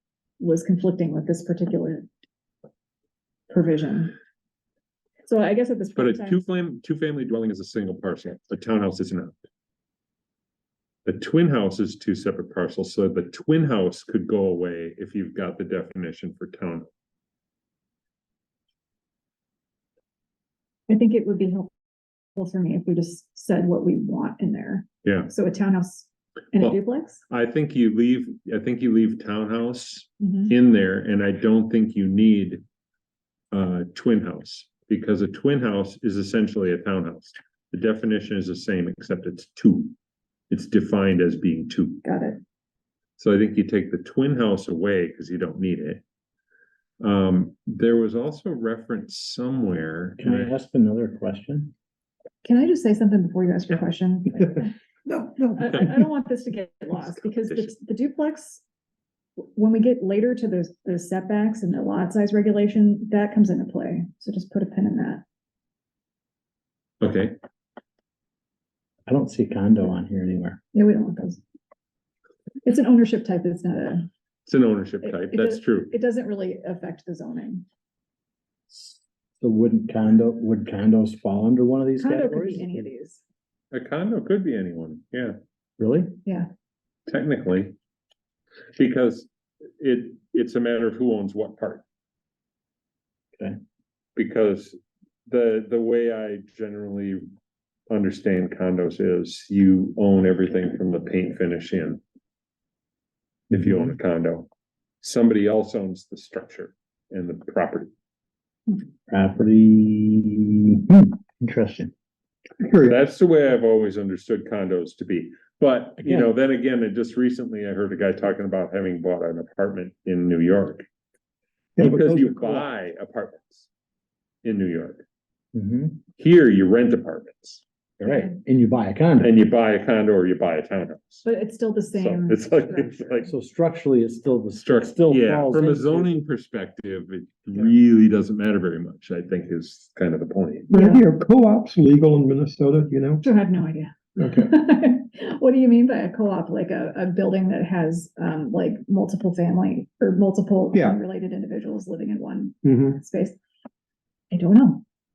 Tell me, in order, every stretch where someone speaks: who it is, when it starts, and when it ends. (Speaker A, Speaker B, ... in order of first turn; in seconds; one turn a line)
Speaker A: 0.4-2.1
Speaker A: 3.5-4.2
Speaker A: 5.2-6.4
Speaker B: 6.0-9.4
Speaker B: 11.0-16.9
Speaker A: 20.9-21.8
Speaker A: 22.3-27.2
Speaker B: 25.0-25.3
Speaker B: 26.6-32.6
Speaker A: 30.2-30.5
Speaker B: 33.5-39.9
Speaker B: 40.5-42.0
Speaker A: 42.0-42.4
Speaker B: 43.2-46.0
Speaker B: 47.0-50.5
Speaker C: 50.2-51.7
Speaker A: 52.4-54.7
Speaker D: 55.0-56.0
Speaker A: 55.6-58.6
Speaker A: 59.5-65.2
Speaker B: 67.0-67.4
Speaker C: 69.1-70.6
Speaker A: 70.7-71.4
Speaker A: 72.6-74.1
Speaker B: 74.5-75.9
Speaker A: 75.0-77.6
Speaker C: 78.7-82.8
Speaker A: 82.0-83.2
Speaker B: 83.7-85.3
Speaker C: 85.8-86.1
Speaker B: 87.1-87.7
Speaker B: 88.8-91.8
Speaker B: 94.2-94.8
Speaker B: 95.3-97.2
Speaker B: 97.9-102.0
Speaker B: 103.5-104.5
Speaker C: 103.5-103.8
Speaker B: 105.0-107.9
Speaker C: 109.1-111.9
Speaker D: 112.6-113.0
Speaker B: 112.8-120.8
Speaker C: 116.0-116.3
Speaker D: 121.8-122.7
Speaker B: 121.8-123.7
Speaker B: 124.4-125.0
Speaker C: 125.5-126.0
Speaker B: 126.2-127.6
Speaker C: 128.0-129.3
Speaker A: 128.0-128.3
Speaker B: 129.2-131.2
Speaker A: 131.2-133.2
Speaker B: 131.9-133.3
Speaker C: 133.2-136.1
Speaker B: 134.6-140.7
Speaker D: 140.7-143.2
Speaker A: 140.7-141.0
Speaker A: 143.2-153.4
Speaker D: 144.2-144.5
Speaker D: 150.7-151.0
Speaker D: 152.6-153.0
Speaker A: 154.3-154.8